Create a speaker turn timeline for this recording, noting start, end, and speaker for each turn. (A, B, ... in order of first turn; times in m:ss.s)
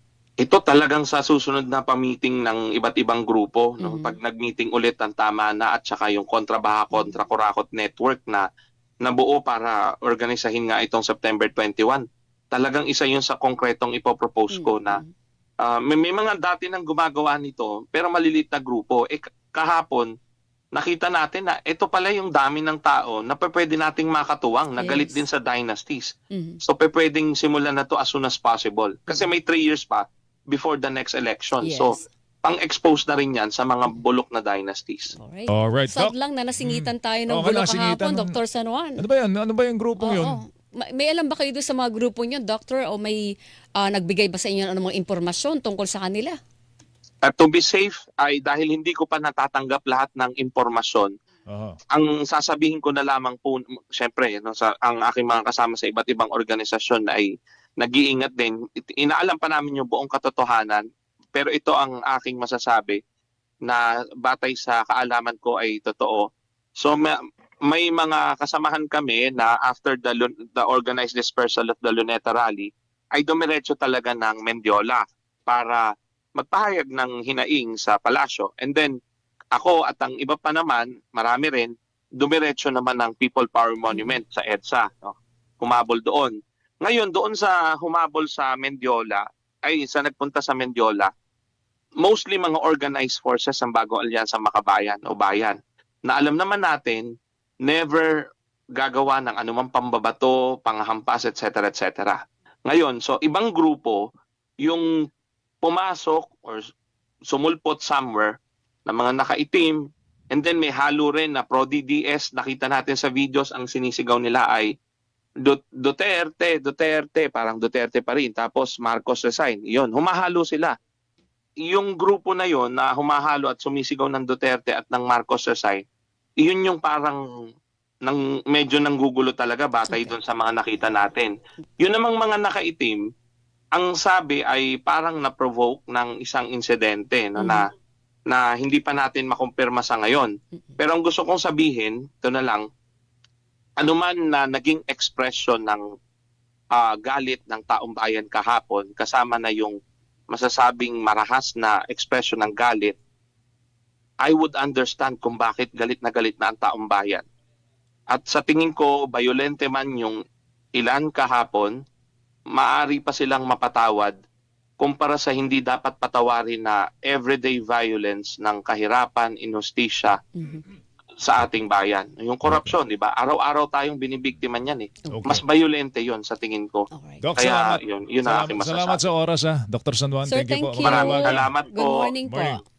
0:00.4-0:08.4 A
0:03.8-0:04.2 B
0:06.9-0:07.2 B
0:09.0-0:15.0 A
0:14.5-0:15.1 B
0:15.6-0:20.1 A
0:20.7-0:35.1 A
0:24.8-0:25.2 B
0:26.3-0:26.6 B
0:31.6-0:32.0 B
0:35.1-0:39.0 B
0:35.5-0:38.4 C
0:39.0-0:40.4 C
0:40.0-0:43.2 B
0:43.8-0:46.4 B
0:47.2-0:51.1 A
0:51.5-0:51.8 C
0:51.9-1:03.0 A
1:03.6-1:06.2 A
1:06.8-1:15.8 A
1:16.4-1:18.9 A
1:19.5-1:31.1 A
1:23.9-1:24.2 B
1:32.0-1:37.0 A
1:37.6-1:38.1 A
1:38.8-1:44.0 A
1:45.6-1:46.7 A
1:47.3-1:48.3 A
1:48.9-1:54.7 A
1:55.4-2:00.7 A
2:01.7-2:05.8 A
2:06.4-2:07.2 A
2:08.0-2:13.0 A
2:09.9-2:10.2 B
2:13.7-2:17.7 A
2:17.4-2:17.7 B
2:18.3-2:22.6 A
2:23.8-2:25.8 A
2:26.7-2:29.7 A
2:30.3-2:33.0 A
2:34.2-2:37.2 A
2:38.1-2:40.2 A
2:40.8-2:41.7 A
2:42.5-2:44.2 A
2:44.8-2:50.2 A
2:50.4-2:50.6 B
2:51.2-2:59.0 A
2:52.4-2:52.7 C
2:55.1-2:55.4 C
2:56.9-2:57.2 B
2:57.2-3:01.5 C
3:00.2-3:02.6 B
3:00.8-3:02.0 A
3:02.2-3:02.6 C